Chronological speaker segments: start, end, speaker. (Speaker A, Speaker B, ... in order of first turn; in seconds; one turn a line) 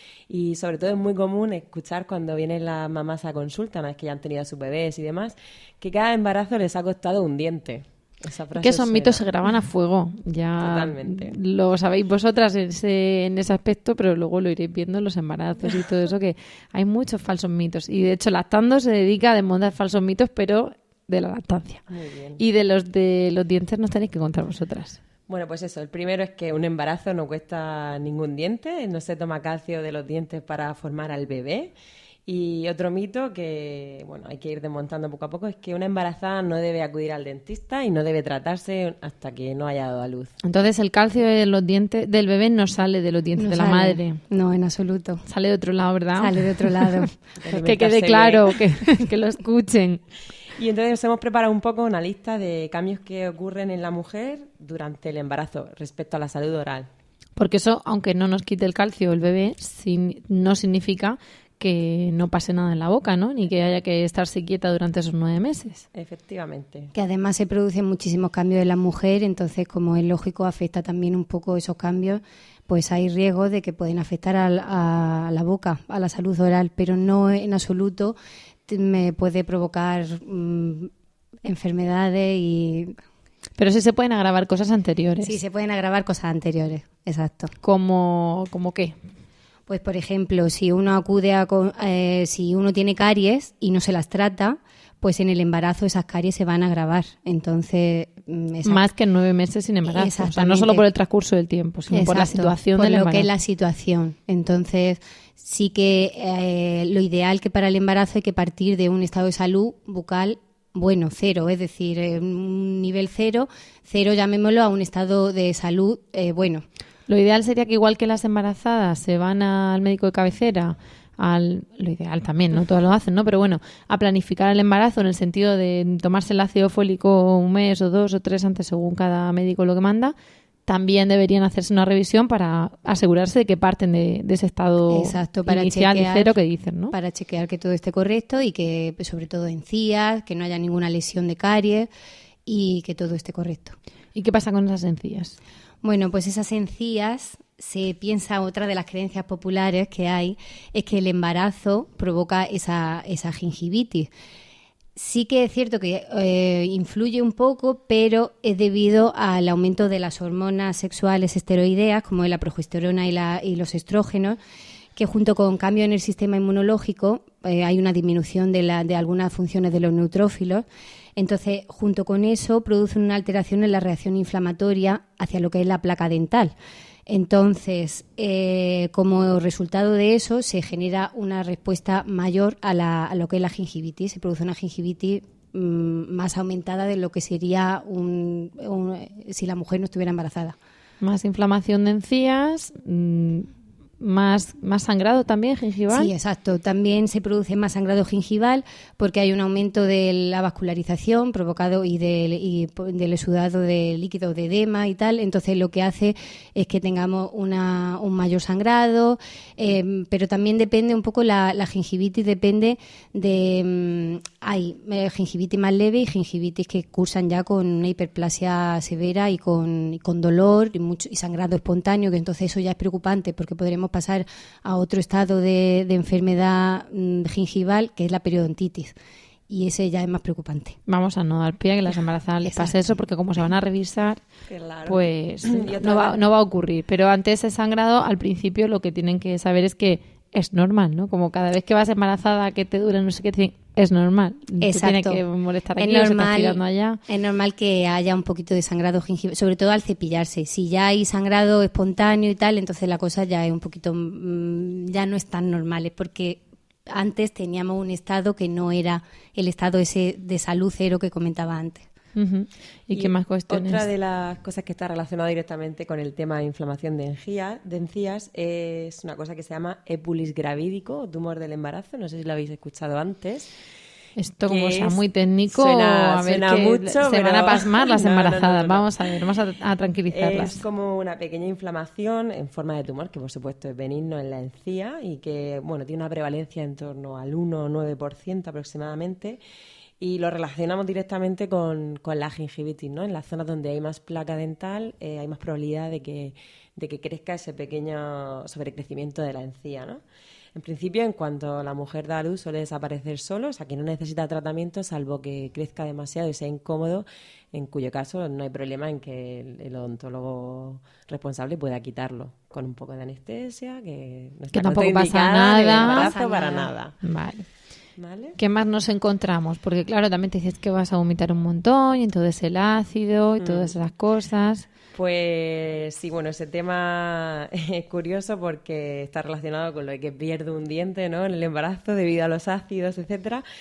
Speaker A: 0.3-9.2
Speaker B: 8.6-21.8
Speaker A: 10.6-11.4
Speaker A: 21.9-22.4
Speaker B: 22.4-25.0
Speaker A: 25.3-31.7
Speaker A: 32.3-40.4
Speaker B: 40.4-44.2
Speaker C: 43.4-45.2
Speaker B: 45.3-47.1
Speaker C: 46.2-47.1
Speaker A: 47.4-48.6
Speaker B: 47.6-50.0
Speaker A: 50.6-56.9
Speaker B: 57.4-65.8
Speaker A: 65.9-66.9
Speaker C: 67.0-78.2
Speaker C: 78.7-80.9
Speaker C: 81.5-83.0
Speaker B: 83.6-85.4
Speaker C: 85.2-87.5
Speaker B: 87.6-89.0
Speaker C: 89.7-98.9
Speaker B: 98.7-103.3
Speaker C: 99.9-100.9
Speaker C: 101.9-116.7
Speaker B: 117.1-130.1
Speaker B: 130.7-136.9
Speaker C: 134.9-136.3
Speaker C: 136.9-141.9
Speaker C: 142.5-143.8
Speaker B: 144.2-145.4
Speaker C: 145.8-154.1
Speaker C: 155.0-164.4
Speaker C: 165.0-170.7
Speaker C: 171.2-176.5
Speaker C: 177.1-190.6
Speaker B: 191.0-196.1
Speaker C: 195.9-228.9
Speaker C: 229.5-230.8
Speaker B: 230.9-234.2
Speaker C: 232.4-233.0
Speaker A: 234.5-236.2
Speaker B: 234.9-247.0
Speaker C: 244.6-245.2
Speaker C: 245.8-261.9
Speaker B: 262.2-263.9
Speaker A: 262.9-273.5
Speaker B: 274.2-280.6
Speaker A: 274.4-278.9
Speaker A: 280.1-289.4
Speaker A: 290.0-300.0
Speaker A: 300.6-316.9
Speaker B: 314.5-316.1
Speaker C: 315.6-316.7
Speaker B: 317.0-317.5
Speaker A: 318.0-318.4
Speaker B: 318.4-324.7
Speaker A: 323.4-323.7
Speaker A: 324.9-333.4